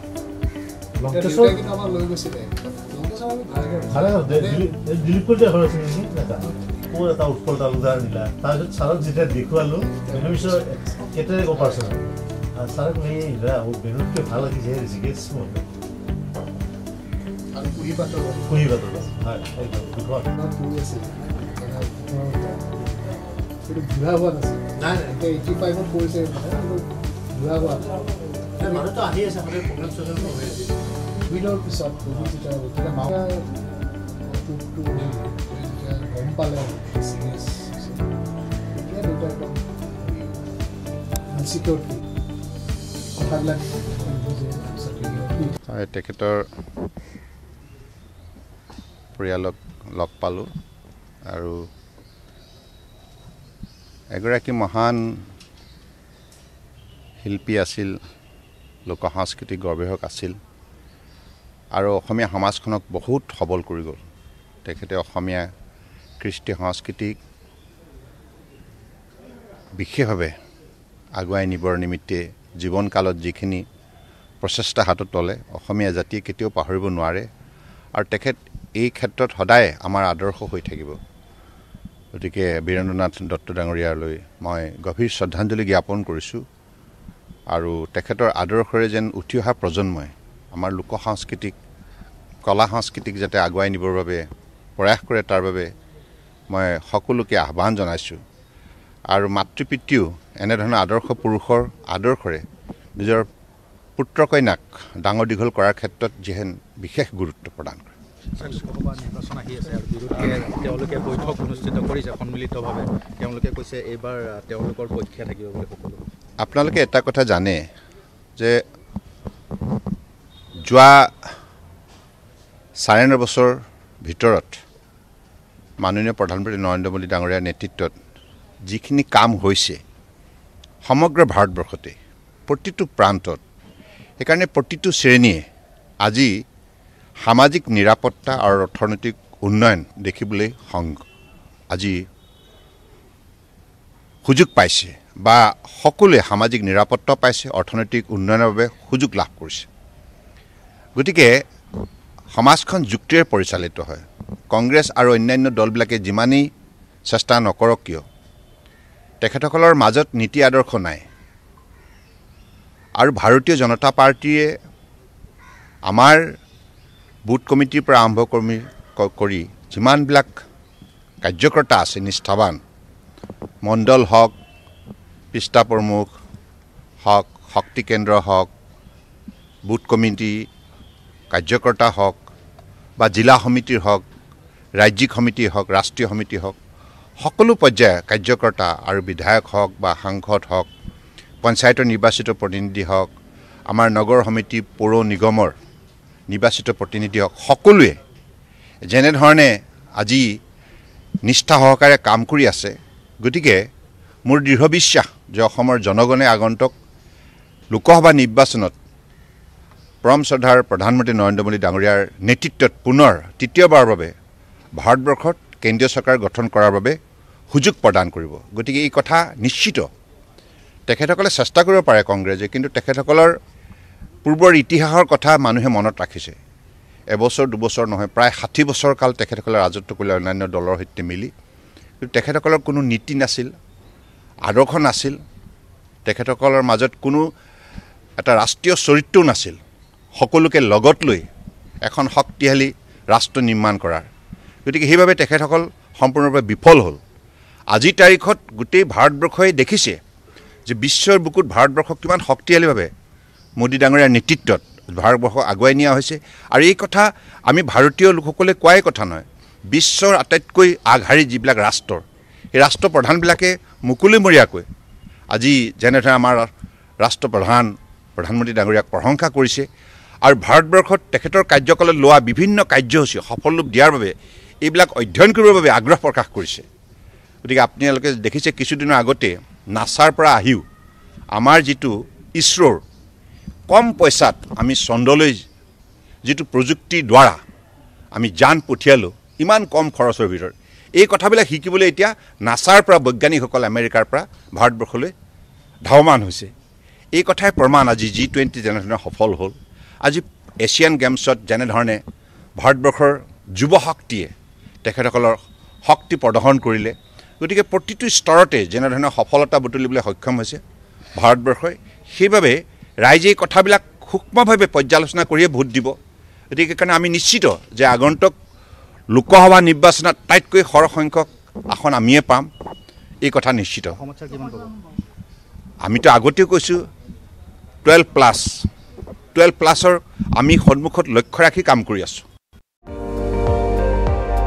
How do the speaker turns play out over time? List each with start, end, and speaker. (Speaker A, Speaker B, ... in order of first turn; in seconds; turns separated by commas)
Speaker A: 1.0-1.6, Speaker B: 1.1-4.7, Speaker A: 3.9-15.7, Speaker B: 10.0-12.0, Speaker B: 17.5-18.6, Speaker A: 18.5-20.3, Speaker B: 20.3-22.6, Speaker B: 23.6-28.0, Speaker A: 24.8-25.1, Speaker A: 28.6-30.7, Speaker B: 31.2-33.5, Speaker B: 34.3-38.1, Speaker B: 38.7-40.4, Speaker B: 41.3-42.0, Speaker B: 43.1-45.5, Speaker C: 45.6-46.4, Speaker C: 49.1-50.5, Speaker C: 51.3-51.6, Speaker C: 54.1-55.2, Speaker C: 57.2-57.9, Speaker C: 58.9-60.3, Speaker C: 61.7-64.0, Speaker C: 64.6-65.5, Speaker C: 66.2-67.2, Speaker C: 69.8-70.3, Speaker C: 71.2-73.6, Speaker C: 74.4-77.3, Speaker C: 77.9-81.0, Speaker C: 82.2-86.4, Speaker C: 87.5-91.5, Speaker C: 92.4-94.2, Speaker C: 94.8-95.7, Speaker C: 96.5-98.2, Speaker C: 99.1-102.4, Speaker C: 103.0-103.2, Speaker C: 104.0-107.9, Speaker D: 108.4-116.1, Speaker C: 116.4-117.6, Speaker C: 120.6-121.1, Speaker C: 122.8-124.6, Speaker C: 125.8-127.9, Speaker C: 128.7-129.8, Speaker C: 130.8-131.9, Speaker C: 132.5-133.4, Speaker C: 134.2-135.4, Speaker C: 136.0-136.3, Speaker C: 137.2-141.0, Speaker C: 141.7-142.0, Speaker C: 144.2-149.7, Speaker C: 150.9-151.4, Speaker C: 152.3-156.4, Speaker C: 157.1-158.0, Speaker C: 159.2-161.0, Speaker C: 163.0-164.5, Speaker C: 165.9-166.2, Speaker C: 167.3-170.4, Speaker C: 171.2-172.6, Speaker C: 173.6-174.3, Speaker C: 175.3-176.1, Speaker C: 177.0-178.5, Speaker C: 179.6-180.4, Speaker C: 181.3-182.2, Speaker C: 183.0-184.0, Speaker C: 184.8-186.6, Speaker C: 187.2-190.7, Speaker C: 191.4-193.1, Speaker C: 193.7-195.5, Speaker C: 196.3-198.0, Speaker C: 198.9-200.3, Speaker C: 201.2-203.6, Speaker C: 204.2-206.7, Speaker C: 207.7-208.8, Speaker C: 210.0-214.1, Speaker C: 214.8-216.9, Speaker C: 217.5-219.8, Speaker C: 220.9-223.3, Speaker C: 224.2-226.4, Speaker C: 227.1-231.3, Speaker C: 232.0-233.5, Speaker C: 234.4-235.2, Speaker C: 236.1-237.3, Speaker C: 238.2-239.6, Speaker C: 240.2-241.2, Speaker C: 241.8-244.1, Speaker C: 244.7-247.0, Speaker C: 247.7-250.0, Speaker C: 250.7-252.9, Speaker C: 253.6-262.0, Speaker C: 262.5-264.6, Speaker C: 265.3-266.5, Speaker C: 267.0-269.7, Speaker C: 270.2-276.6, Speaker C: 277.4-280.6, Speaker C: 281.3-282.8, Speaker C: 283.7-285.4, Speaker C: 286.2-287.4, Speaker C: 288.1-295.1, Speaker C: 295.8-296.5, Speaker C: 297.1-302.0, Speaker C: 302.6-304.3, Speaker C: 304.8-310.6, Speaker C: 311.1-315.9, Speaker C: 316.5-318.3, Speaker C: 319.1-322.5, Speaker C: 323.2-324.0, Speaker D: 324.0-324.7, Speaker C: 325.8-326.8, Speaker C: 327.8-328.7, Speaker C: 329.3-332.2